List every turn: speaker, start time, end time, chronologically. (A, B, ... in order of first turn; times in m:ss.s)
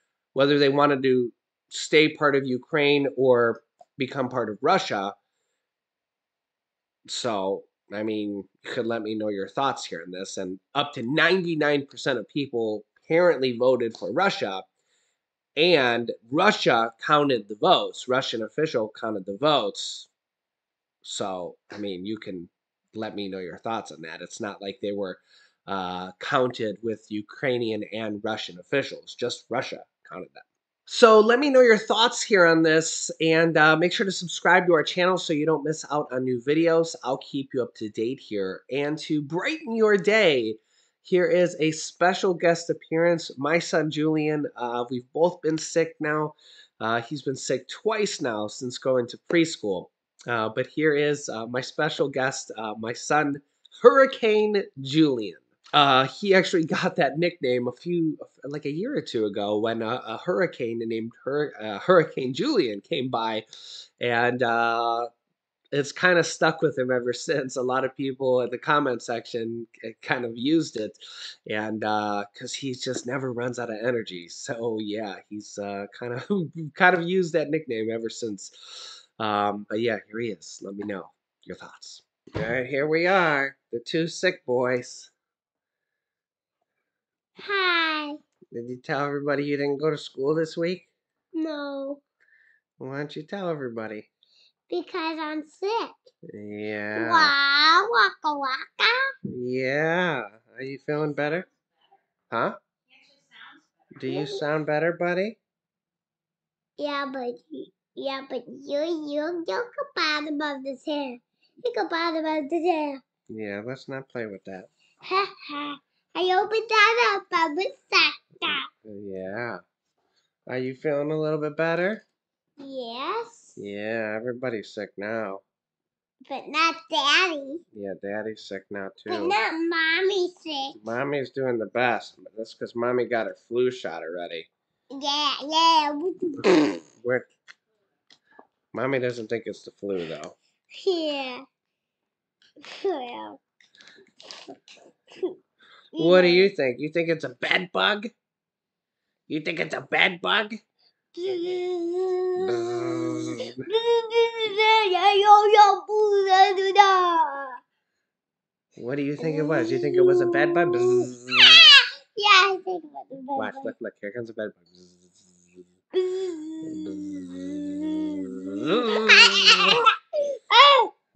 0:00.3-0:05.2 A
0:07.1-0:14.7 A
0:15.6-0:20.1 A
0:21.0-1:03.4 A
1:04.0-1:05.1 A
1:05.7-1:25.1 A
1:27.4-1:28.2 B
1:28.5-1:30.9 A
1:31.4-1:32.0 B
1:32.8-1:34.1 A
1:34.7-1:36.0 B
1:36.3-1:37.3 A
1:37.0-1:39.1 B
1:39.3-1:41.5 A
1:42.3-1:42.6 A
1:44.0-1:45.4 A
1:44.0-1:44.4 B
1:46.8-1:53.0 B
1:53.3-1:54.7 A
1:55.0-1:58.7 B
1:58.5-1:59.6 A
2:00.5-2:02.0 A
2:02.6-2:03.6 B
2:03.6-2:05.4 A
2:06.2-2:07.6 B
2:07.7-2:09.4 A
2:09.1-2:10.8 B
2:10.8-2:14.5 A
2:14.9-2:16.6 B
2:16.5-2:17.3 A
2:18.7-2:20.4 A
2:20.7-2:21.4 B
2:22.6-2:23.4 B
2:25.9-2:26.5 B
2:26.0-2:28.1 A
2:29.3-2:30.6 A
2:31.2-2:37.6 B
2:32.4-2:33.6 A
2:38.8-2:41.6 A
2:39.2-2:43.7 B
2:43.4-2:45.4 A
2:45.9-2:49.9 B
2:46.7-2:49.8 A
2:50.5-2:50.9 B